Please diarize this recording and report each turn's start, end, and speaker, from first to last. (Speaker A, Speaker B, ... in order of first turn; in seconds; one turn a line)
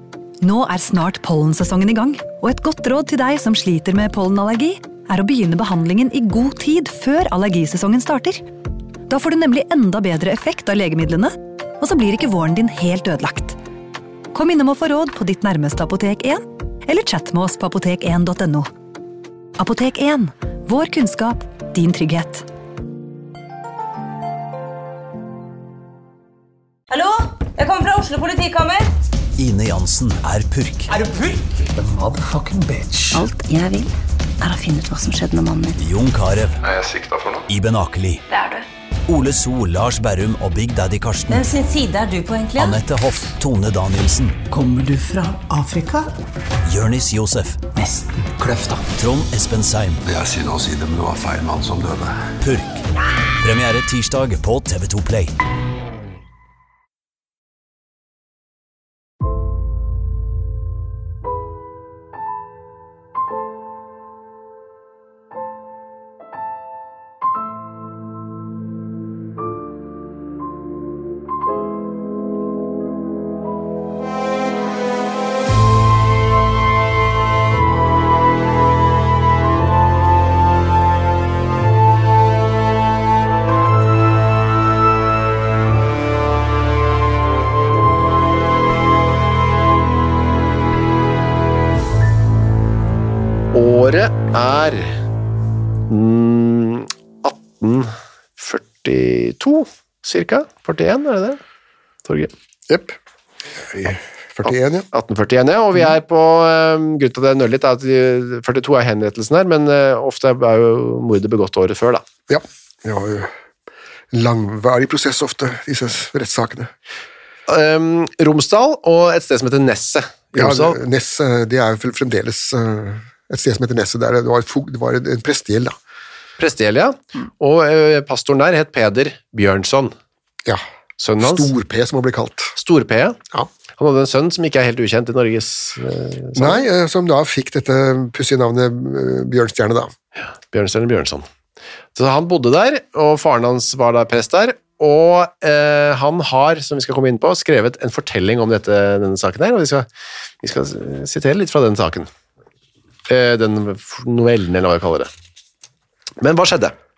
Speaker A: 0.4-8.4
Speaker A: 9.1-13.6
Speaker A: 14.3-18.7
Speaker A: 19.6-22.4
Speaker B: 26.9-28.9
Speaker C: 29.4-31.0
Speaker D: 30.9-33.2
Speaker E: 33.1-35.8
Speaker C: 35.8-36.6
Speaker F: 36.6-37.5
Speaker C: 37.5-38.2
Speaker B: 38.3-38.6
Speaker C: 39.1-41.5
Speaker B: 41.3-42.8
Speaker C: 42.6-44.4
Speaker D: 44.5-46.1
Speaker C: 46.6-47.6
Speaker D: 47.7-48.9
Speaker C: 48.9-50.0
Speaker F: 50.0-52.3
Speaker C: 52.4-52.8
Speaker C: 53.4-55.3
Speaker G: 93.5-95.0
Speaker G: 95.9-101.4
Speaker G: 102.0-102.3
Speaker H: 102.7-103.0
Speaker H: 103.6-104.9
Speaker G: 104.9-112.0
Speaker H: 112.3-113.3
Speaker H: 114.1-116.7
Speaker G: 117.5-120.8
Speaker H: 120.3-125.8
Speaker G: 126.4-129.9
Speaker G: 131.0-131.5
Speaker H: 131.2-132.5
Speaker G: 132.6-133.2
Speaker G: 133.8-136.6
Speaker H: 136.3-139.9
Speaker G: 140.2-141.2
Speaker G: 141.9-149.9
Speaker G: 150.4-152.1
Speaker G: 153.1-155.1
Speaker G: 156.2-156.7